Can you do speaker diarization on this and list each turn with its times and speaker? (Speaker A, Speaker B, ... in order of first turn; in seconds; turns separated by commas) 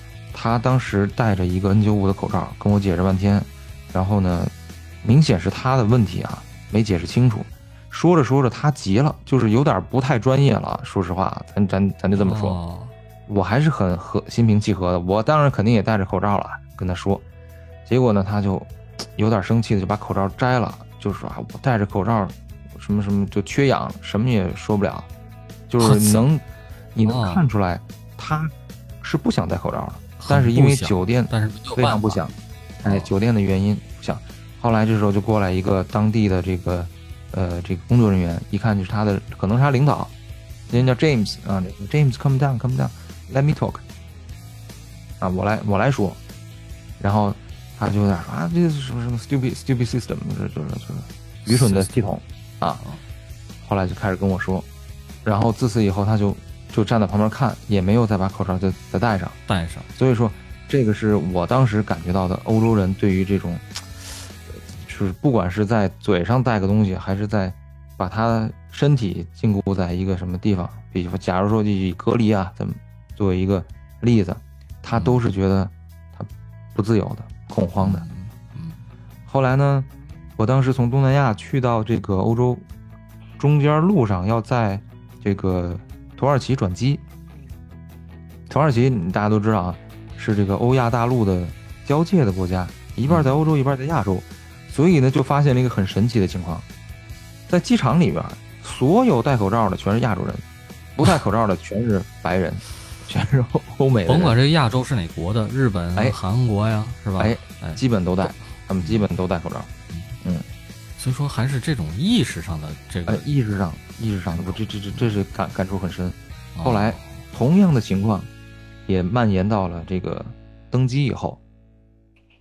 Speaker A: 0.3-12.6, Speaker B: 12.2-12.9, Speaker A: 13.3-17.2, Speaker A: 17.9-25.1, Speaker A: 25.7-26.4, Speaker B: 25.8-26.3, Speaker A: 26.9-40.1, Speaker B: 27.0-27.4, Speaker B: 30.2-32.2, Speaker B: 32.8-33.1, Speaker A: 40.7-43.8, Speaker A: 45.2-46.2, Speaker A: 47.0-52.8, Speaker B: 51.5-52.1, Speaker A: 53.6-54.7, Speaker A: 55.2-59.4, Speaker B: 59.5-59.9, Speaker A: 59.9-78.0, Speaker B: 74.9-75.2, Speaker B: 77.8-78.8, Speaker A: 79.3-82.7, Speaker A: 83.4-87.0, Speaker A: 88.5-96.7, Speaker B: 93.1-93.4, Speaker A: 97.5-100.4, Speaker A: 101.0-104.3, Speaker B: 104.0-107.8, Speaker A: 107.2-109.7, Speaker B: 108.8-109.1, Speaker B: 111.0-113.3, Speaker A: 113.1-118.3, Speaker B: 114.4-115.2, Speaker B: 116.5-117.2, Speaker A: 118.9-121.4